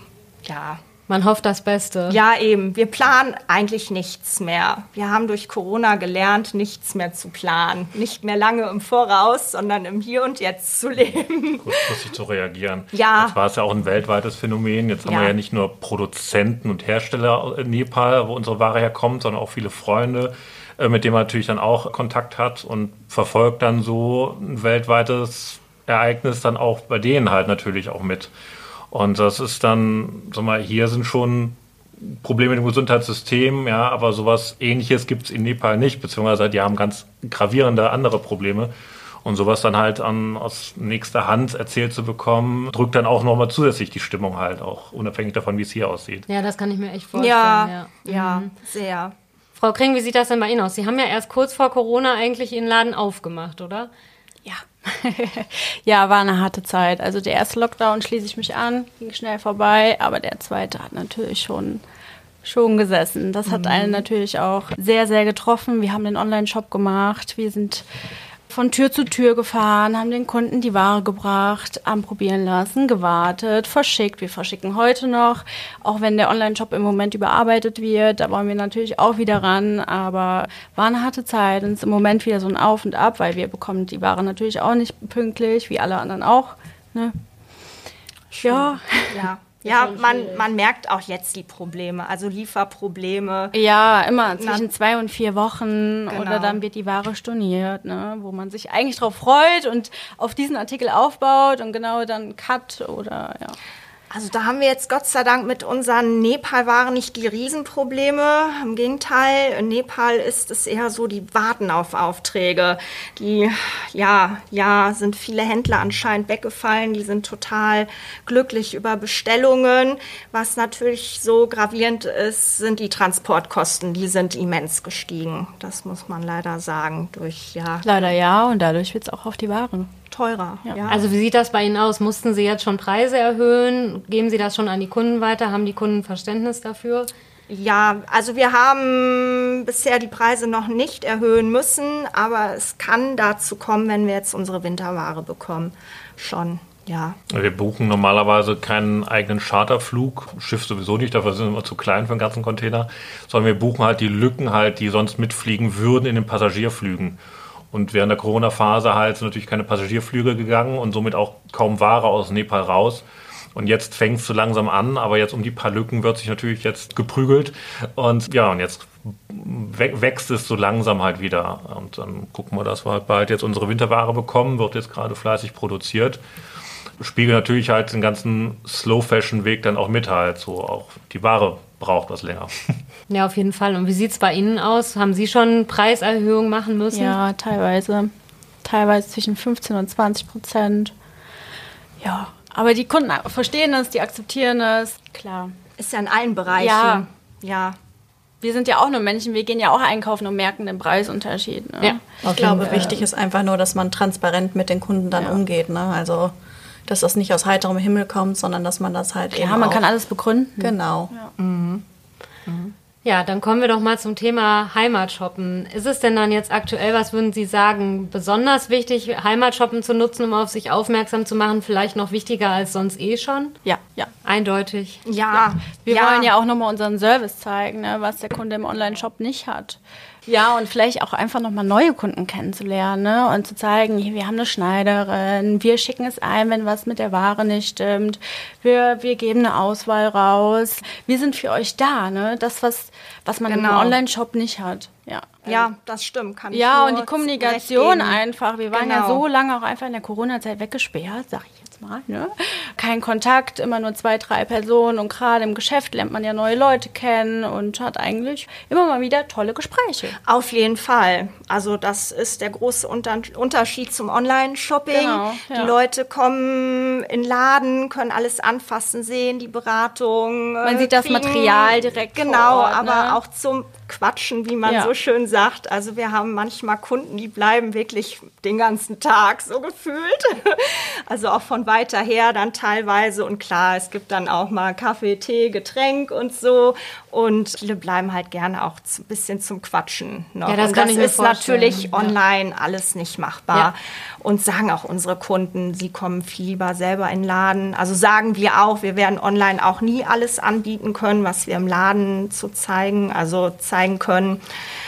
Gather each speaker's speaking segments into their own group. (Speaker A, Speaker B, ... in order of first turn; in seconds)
Speaker A: 0.5-0.8, 2.1-12.0, 12.9-13.3, 15.1-15.3, 47.1-49.1, 63.5-64.0, 88.3-93.6, 94.2-94.7, 96.1-96.6, 104.1-128.1, 130.1-131.0, 137.5-147.2, 195.8-197.8, 211.4-211.8, 212.5-212.7, 225.1-226.3, 243.5-244.0, 245.4-249.2, 260.2-304.4
Speaker B: 1.1-2.2, 46.3-48.5, 49.6-53.9, 89.7-90.5, 130.9-137.1, 183.1-187.2, 201.8-203.0, 213.1-223.6, 224.2-225.0, 290.5-292.2
Speaker C: 11.6-28.3, 28.9-38.7, 39.2-46.3, 147.3-157.2, 157.7-163.0, 163.6-176.2, 177.0-182.8
Speaker D: 54.5-61.8, 62.4-67.8, 68.5-87.2, 88.4-89.3, 93.5-103.6, 127.8-129.9, 186.9-188.1, 188.6-190.9, 192.0-195.5, 196.6-197.1, 198.4-203.1, 209.3-211.3, 223.6-224.1, 225.3-245.7, 246.5-260.2, 264.9-265.7, 270.6-273.2, 274.6-274.9
Speaker E: 202.2-206.3, 206.9-209.8, 210.6-211.1